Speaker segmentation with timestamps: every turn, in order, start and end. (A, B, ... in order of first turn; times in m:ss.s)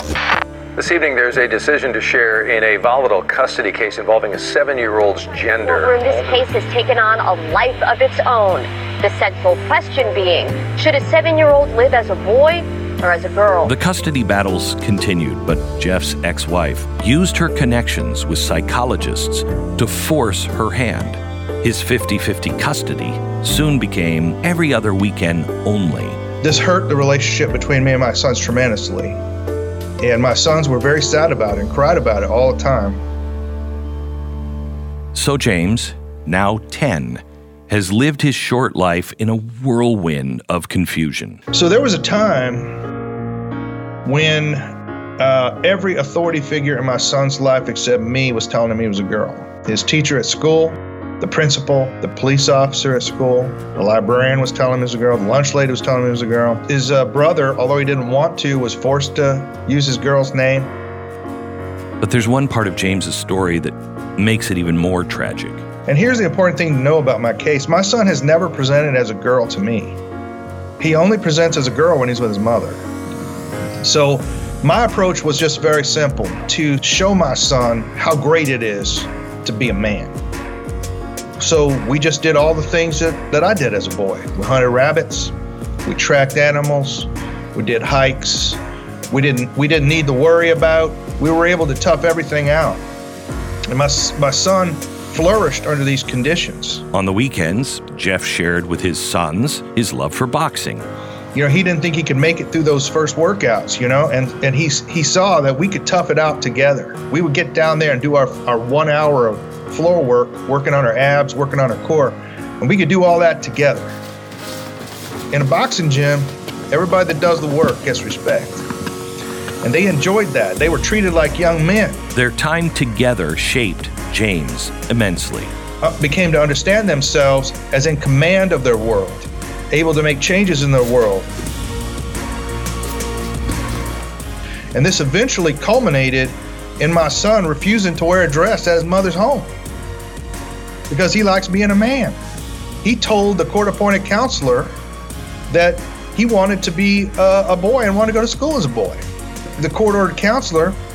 0:00.8-0:06.5 A
0:05.6-0:13.7 B
0:13.6-0:26.2 C
0:26.4-0:29.2 D
0:30.0-0:33.0 D
0:35.1-0:41.4 C
0:41.5-0:42.8 D
0:44.0-1:00.7 D
1:02.0-1:05.6 C
1:05.9-1:10.0 D
1:10.8-1:12.8 D
1:13.8-1:20.2 D
1:21.4-1:25.3 D
1:25.9-1:28.6 D
1:29.1-1:32.8 D
1:33.7-1:36.8 D
1:36.9-1:40.9 C
1:41.3-1:54.0 D
1:55.3-1:58.7 D
1:59.6-2:02.0 D
2:02.1-2:05.5 C
2:05.8-2:11.3 D
2:14.7-2:19.5 D
2:20.9-2:22.2 D
2:22.8-2:24.8 D
2:25.5-2:29.0 D
2:29.6-2:30.8 D